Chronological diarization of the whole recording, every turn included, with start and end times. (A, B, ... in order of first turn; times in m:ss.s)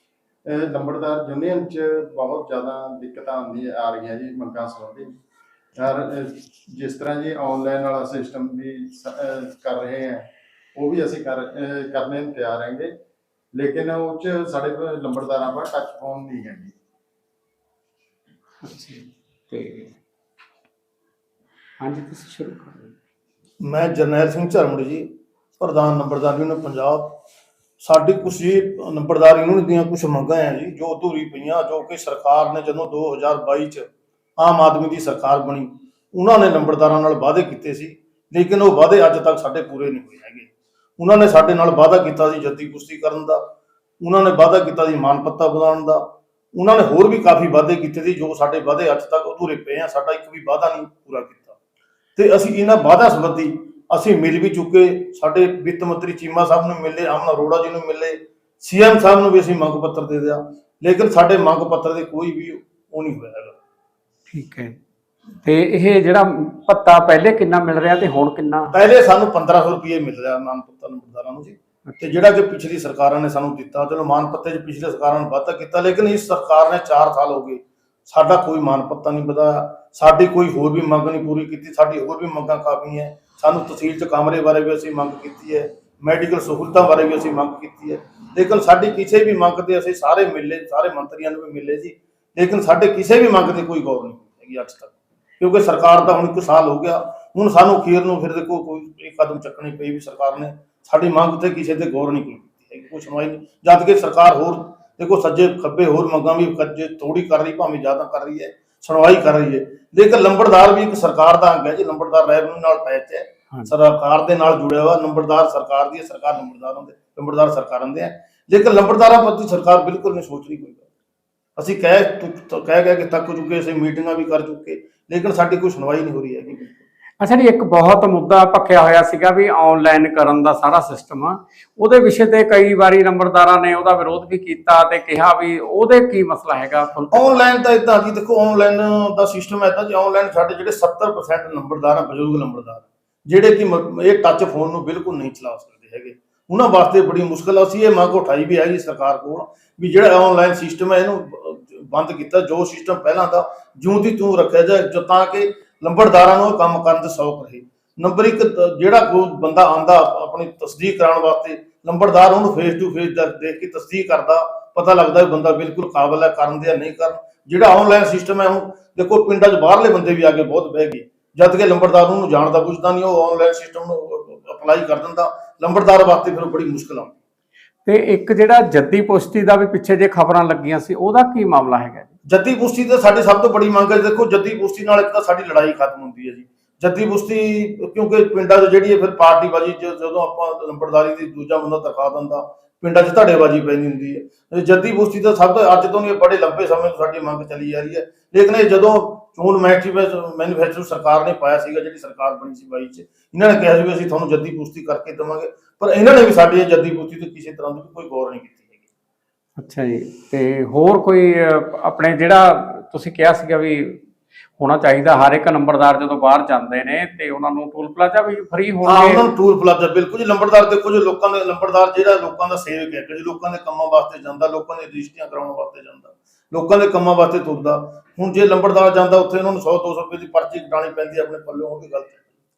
0:00.5-0:05.1 A
0:05.8-0:10.2 A
0:10.8-0:12.9 A
0:13.5-0:16.7 A
0:18.6-0:20.0 B
0:21.8-0:22.9 B
0:23.6-0:27.2 C
0:27.8-0:43.5 C
0:44.0-0:51.6 C
0:52.2-1:03.6 C
1:04.3-1:04.8 B
1:05.4-1:08.7 B
1:08.7-2:00.8 C
2:01.6-2:06.8 C
2:07.2-2:17.4 B
2:17.1-2:57.1 C
2:57.8-3:02.1 B
3:02.3-3:28.8 C
3:29.6-3:34.0 B
3:34.6-3:39.2 B
3:38.8-3:52.2 C